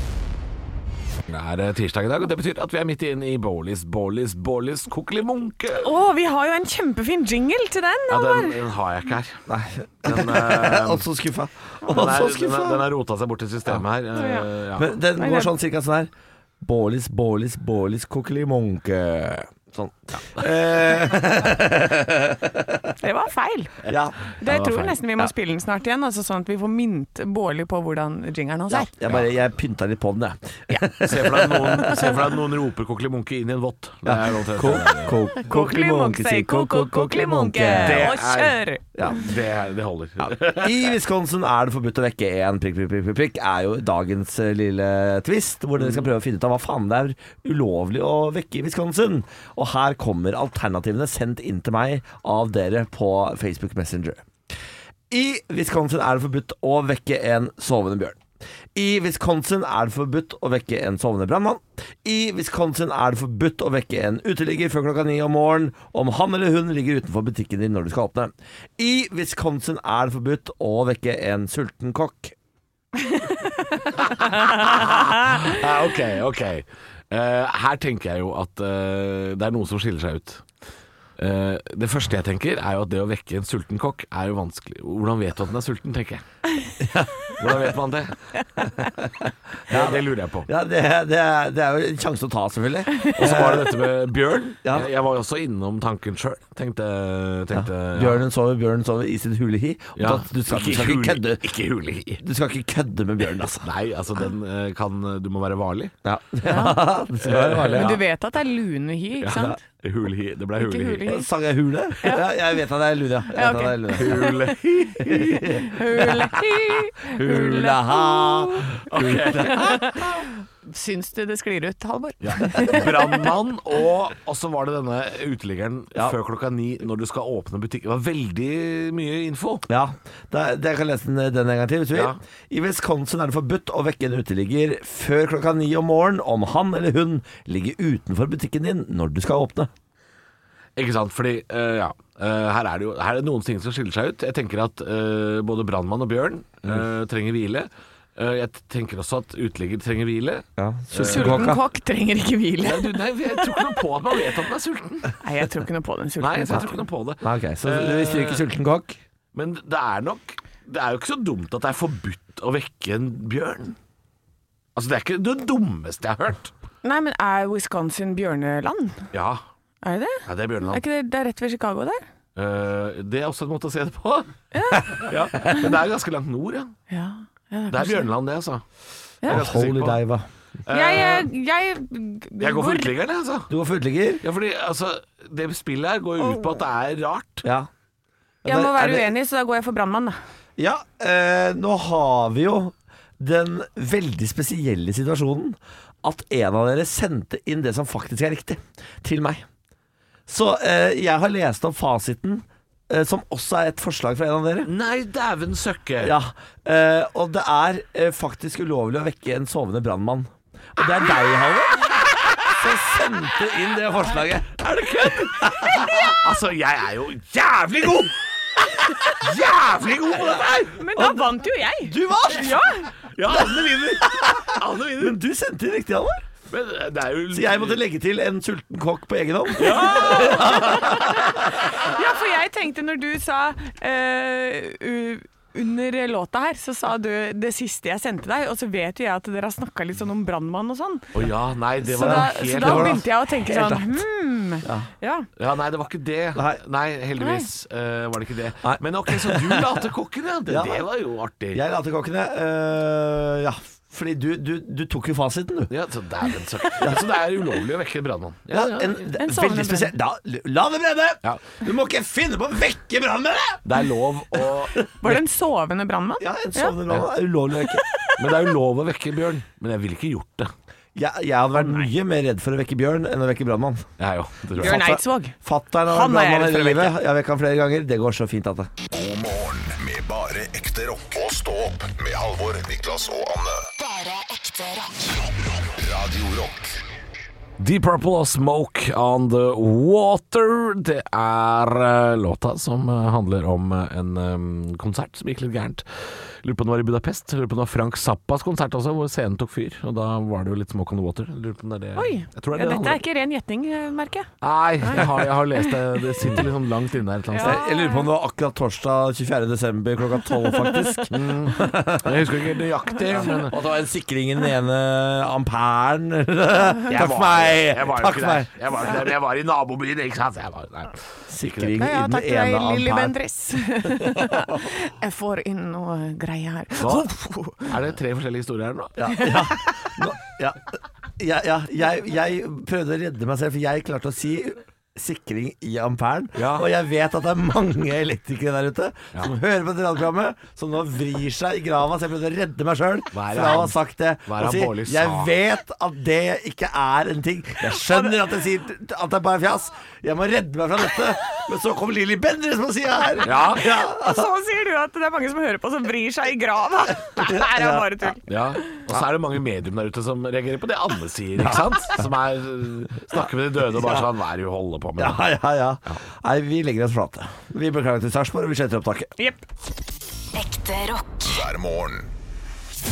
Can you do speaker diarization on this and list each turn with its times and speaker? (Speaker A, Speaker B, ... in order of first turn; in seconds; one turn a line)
Speaker A: 1.3-5.9
Speaker B: 5.8-8.6
Speaker A: 8.1-9.4
Speaker C: 9.5-12.8
Speaker A: 10.0-11.1
Speaker A: 11.9-15.0
Speaker B: 14.2-14.5
Speaker C: 14.8-22.9
Speaker B: 15.2-15.5
Speaker B: 23.0-23.8
Speaker C: 23.9-24.2
Speaker A: 23.9-25.0
Speaker B: 24.4-28.9
Speaker C: 28.7-32.1
Speaker A: 31.0-35.2
Speaker C: 34.0-38.1
Speaker B: 35.4-38.8
Speaker A: 37.7-40.9
Speaker C: 39.0-39.2
Speaker C: 40.2-54.2
Speaker A: 45.8-46.1
Speaker C: 55.1-58.2
Speaker C: 58.8-72.3
Speaker B: 73.1-75.4
Speaker A: 74.2-80.5
Speaker A: 81.2-86.2
Speaker C: 86.8-87.5
Speaker A: 87.4-88.2
Speaker C: 89.0-93.8
Speaker A: 89.7-90.5
Speaker A: 93.1-98.2
Speaker C: 97.5-101.5
Speaker A: 100.0-102.2
Speaker C: 102.2-103.7
Speaker A: 103.6-105.9
Speaker C: 106.0-108.0
Speaker B: 106.5-106.8
Speaker A: 107.2-108.0
Speaker B: 107.8-109.6
Speaker A: 109.2-111.2
Speaker B: 110.6-111.3
Speaker C: 111.1-115.8
Speaker B: 112.0-112.3
Speaker B: 113.3-114.5
Speaker A: 114.0-115.5
Speaker B: 115.3-118.7
Speaker C: 117.0-119.9
Speaker A: 118.8-119.8
Speaker B: 119.3-123.2
Speaker A: 122.2-129.7
Speaker C: 129.7-139.7
Speaker A: 140.8-151.5
Speaker C: 150.6-151.6
Speaker B: 151.0-153.6
Speaker A: 152.6-155.2
Speaker B: 155.2-156.8
Speaker A: 156.2-158.4
Speaker C: 157.2-159.0
Speaker A: 159.3-163.8
Speaker A: 164.8-166.5
Speaker B: 166.8-169.1
Speaker A: 169.1-169.4
Speaker B: 169.8-172.0
Speaker A: 170.3-170.8
Speaker A: 172.4-174.3
Speaker B: 174.5-175.6
Speaker A: 174.9-176.8
Speaker B: 176.9-178.1
Speaker A: 177.7-178.7
Speaker A: 179.2-180.0
Speaker C: 179.3-180.3
Speaker A: 180.7-181.3
Speaker B: 180.7-182.9
Speaker A: 182.4-183.5
Speaker C: 183.5-184.2
Speaker A: 184.2-187.4
Speaker C: 187.4-187.7
Speaker C: 188.4-189.1
Speaker B: 188.4-190.2
Speaker C: 190.6-199.4
Speaker C: 200.3-204.7
Speaker A: 204.7-206.2
Speaker C: 206.0-216.1
Speaker A: 214.6-218.2
Speaker A: 218.7-220.8
Speaker B: 220.8-222.9
Speaker C: 221.0-221.2
Speaker C: 221.8-222.6
Speaker A: 223.2-225.2
Speaker C: 224.1-226.2
Speaker A: 226.5-227.8
Speaker C: 227.3-231.6
Speaker A: 229.6-230.7
Speaker B: 229.8-231.2
Speaker B: 231.8-241.1
Speaker A: 241.1-243.0
Speaker B: 241.8-245.3
Speaker C: 242.0-244.0
Speaker C: 244.6-244.9
Speaker A: 245.4-251.6
Speaker B: 247.2-247.5
Speaker C: 248.6-249.8
Speaker C: 250.5-250.9
Speaker C: 251.5-255.7
Speaker A: 255.7-259.1
Speaker C: 258.5-263.7
Speaker B: 259.1-259.9
Speaker A: 263.6-264.8
Speaker B: 265.0-266.8
Speaker C: 266.2-267.9
Speaker B: 267.8-268.2
Speaker A: 268.2-270.5
Speaker C: 270.9-273.9
Speaker A: 274.0-274.8
Speaker C: 274.6-278.7
Speaker B: 274.6-275.4
Speaker B: 275.9-276.9
Speaker D: 278.9-283.7
Speaker E: 283.8-285.2
Speaker D: 285.4-286.8
Speaker A: 287.6-303.0
Speaker B: 302.0-304.3
Speaker A: 304.4-307.6
Speaker B: 304.8-306.5
Speaker B: 307.3-308.1
Speaker C: 307.4-312.3
Speaker B: 310.3-311.1
Speaker A: 311.1-313.6
Speaker C: 313.1-318.5
Speaker A: 316.9-321.7
Speaker C: 321.3-323.1
Speaker B: 321.7-327.7
Speaker C: 323.8-324.2
Speaker A: 326.8-327.1
Speaker A: 327.6-329.0
Speaker C: 329.0-330.6
Speaker B: 329.1-329.9
Speaker C: 331.2-354.3
Speaker A: 336.4-336.7
Speaker A: 343.1-343.8
Speaker A: 344.3-345.3
Speaker B: 347.6-348.2
Speaker A: 353.2-353.7
Speaker B: 353.6-358.8
Speaker C: 357.3-358.1
Speaker A: 358.3-365.2
Speaker C: 361.4-361.9
Speaker C: 363.7-364.1
Speaker C: 365.0-369.1
Speaker E: 370.3-371.4
Speaker D: 371.2-372.1